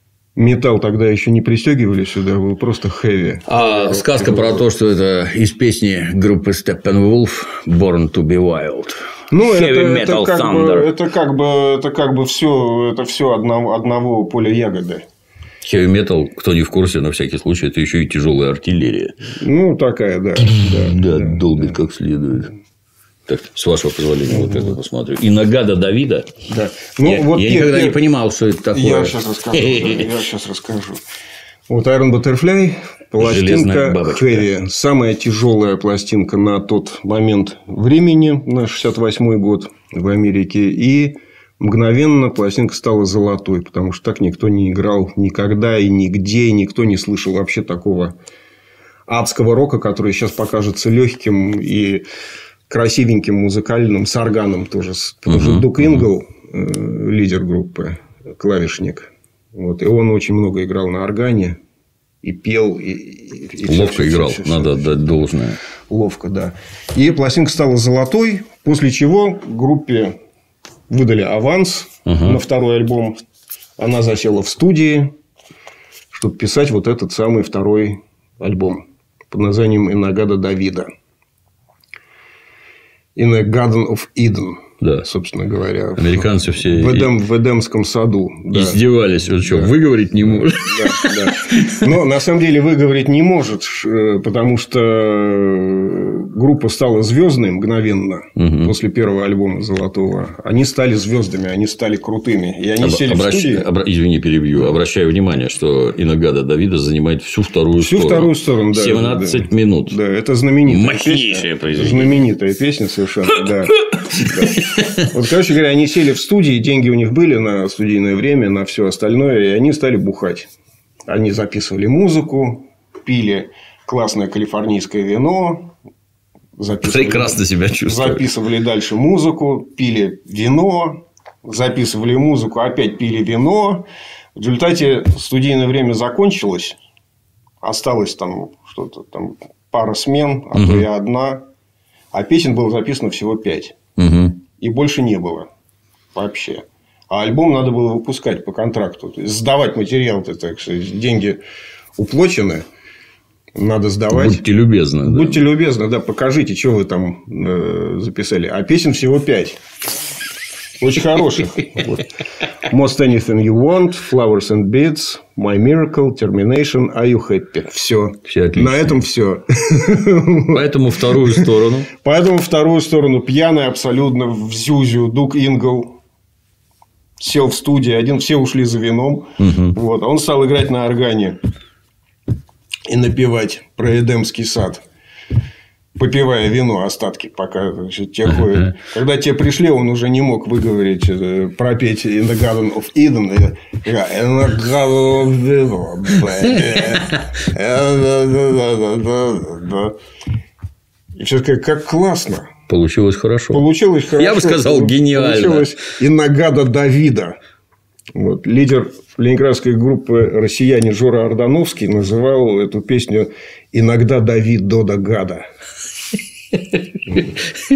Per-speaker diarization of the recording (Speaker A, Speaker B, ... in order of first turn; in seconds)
Speaker A: 0.3-4.6, 9.3-15.0, 19.2-21.8, 24.3-24.8, 26.5-28.0, 28.7-31.0, 31.7-48.1, 49.1-52.0, 52.7-61.6, 62.2-65.1, 65.9-70.2, 70.9-73.2, 73.8-75.1, 76.1-80.9, 83.2-88.8, 89.4-103.7, 107.8-120.5, 121.0-125.7, 126.6-133.8, 134.3-136.8, 137.6-141.4, 142.1-143.8, 144.6-145.5, 146.1-151.4, 152.0-152.6, 153.6-154.4, 155.0-159.6, 160.8-162.1, 162.6-176.0, 177.2-181.4, 182.9-184.8, 185.9-199.9, 201.2-202.5, 203.5-207.4, 208.1-215.4, 217.1-217.4
Speaker B: 3.5-10.9, 15.6-19.1, 20.4-22.5, 23.3-26.3, 27.0-30.1, 33.2-34.5, 55.3-56.1, 63.7-65.6, 72.0-72.4, 86.0-87.1, 88.5-91.9, 98.3-98.7, 102.8-110.0, 110.7-112.2, 114.0-115.0, 126.8-128.3, 140.5-140.8, 144.0-144.4, 154.1-155.4, 168.2-169.0, 170.5-171.9, 179.4-179.8, 188.3-188.7, 202.7-203.6, 204.2-205.7